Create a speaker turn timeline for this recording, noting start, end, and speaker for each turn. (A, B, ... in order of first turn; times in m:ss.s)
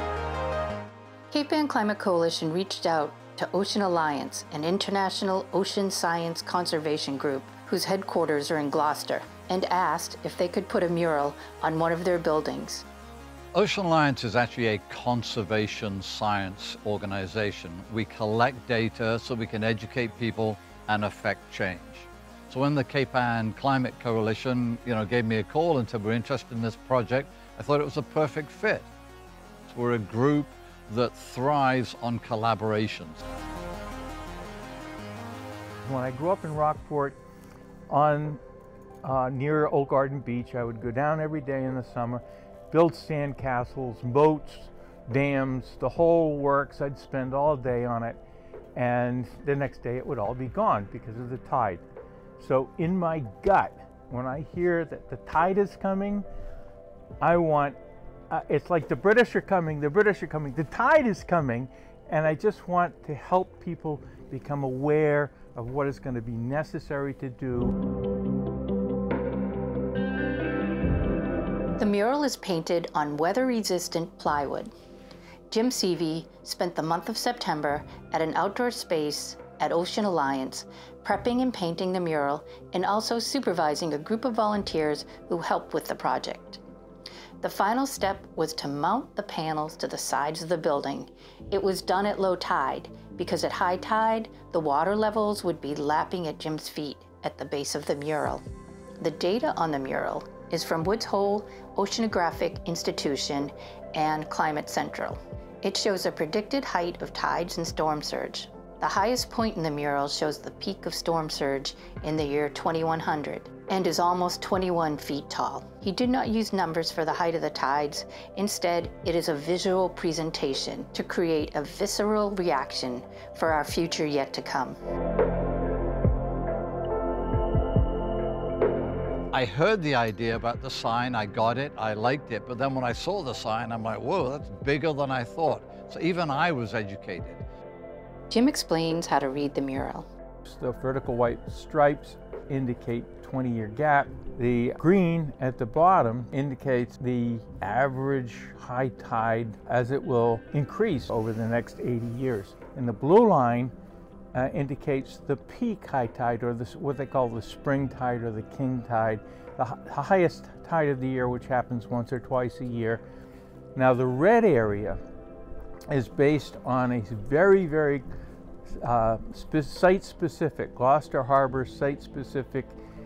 0:01.3-0:12.8 A
0:13.5-0:28.9 B
0:29.7-0:33.2 B
0:35.8-0:37.2 C
0:37.9-0:38.4 C
0:39.0-0:48.2 C
0:48.8-0:51.8 C
0:52.4-0:56.2 C
0:57.2-0:57.8 C
0:58.3-1:07.7 C
1:11.8-1:14.7 A
1:15.5-1:26.6 A
1:27.4-1:38.4 A
1:39.0-2:04.8 A
2:09.3-2:17.4 B
2:18.3-2:20.0 A
2:20.4-2:33.7 C
2:34.3-2:43.0 C
2:43.7-2:45.0 C
2:45.9-2:48.0 C
2:48.8-2:52.7 C